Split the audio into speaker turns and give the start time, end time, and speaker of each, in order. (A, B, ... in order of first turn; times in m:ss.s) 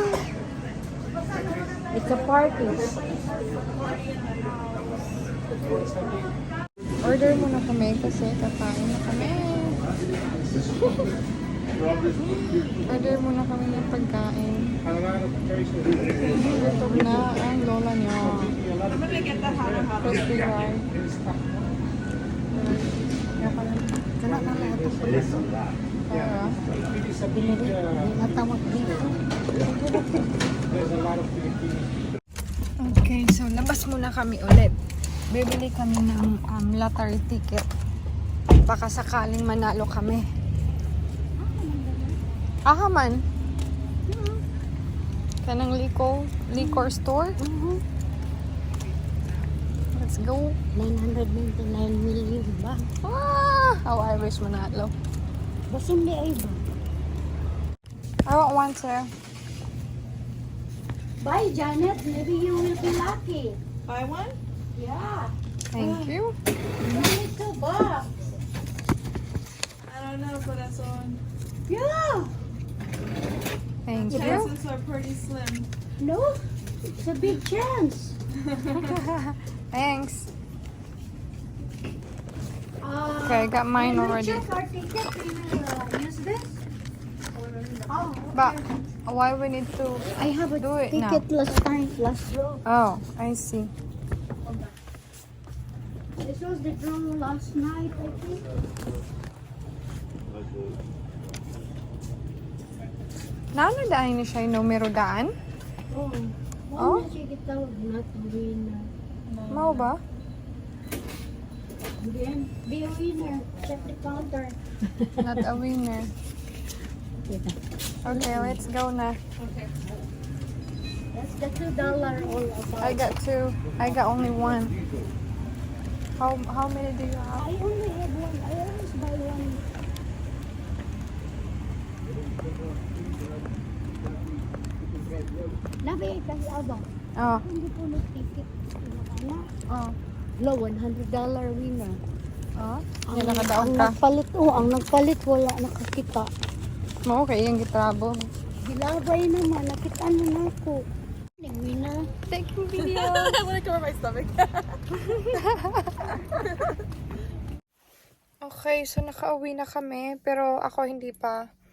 0:01.9-0:03.0 A
0:07.0-0:09.8 B
0:12.1-0:14.7 B
0:16.1-0:18.6 B
0:19.0-0:19.9 C
0:19.9-0:20.9 B
0:23.4-0:24.2 A
0:24.2-0:25.4 B
0:26.1-0:26.6 B
0:27.2-0:29.2 A
0:29.6-0:30.2 B
0:32.8-0:34.7 B
0:35.3-0:37.7 B
0:38.6-0:40.2 B
0:41.4-0:42.2 A
0:42.6-0:43.2 B
0:44.1-0:44.4 A
0:45.4-0:47.4 B
0:46.5-0:47.8 A
0:49.9-0:50.5 B
0:50.7-0:52.8 A
0:53.0-0:54.9 B
0:55.7-0:56.6 A
0:58.2-0:59.1 B
1:01.2-1:03.6 A
1:03.8-1:04.4 C
1:04.7-1:05.3 A
1:05.7-1:06.4 B
1:05.8-1:06.1 C
1:06.8-1:08.1 A
1:09.9-1:11.2 C
1:11.7-1:12.3 A
1:13.8-1:14.5 B
1:14.0-1:15.7 C
1:14.1-1:14.4 A
1:16.0-1:16.4 A
1:16.9-1:18.2 A
1:18.4-1:18.8 C
1:18.7-1:20.3 B
1:22.8-1:26.6 A
1:23.2-1:24.4 B
1:27.9-1:28.7 A
1:28.3-1:31.2 B
1:30.2-1:32.6 A
1:32.6-1:33.7 B
1:34.4-1:34.7 A
1:36.2-1:38.5 A
1:43.5-1:45.3 B
1:45.9-1:48.9 A
1:46.8-1:47.1 B
1:49.5-1:50.0 B
1:52.0-1:55.5 A
1:55.2-1:56.1 B
1:57.3-1:58.6 A
1:58.0-1:59.2 B
1:59.4-1:59.7 C
2:01.1-2:03.1 A
2:02.8-2:04.8 B
2:06.2-2:07.4 B
2:07.3-2:09.6 A
2:15.8-2:16.9 A
2:17.2-2:17.4 B
2:17.4-2:19.5 A
2:19.7-2:19.9 B
2:20.4-2:22.0 A
2:22.6-2:24.0 B
2:23.1-2:26.3 A
2:27.0-2:28.2 B
2:28.6-2:30.8 A
2:31.4-2:32.0 A
2:32.3-2:33.4 B
2:32.8-2:34.8 C
2:35.0-2:36.4 B
2:38.4-2:41.4 B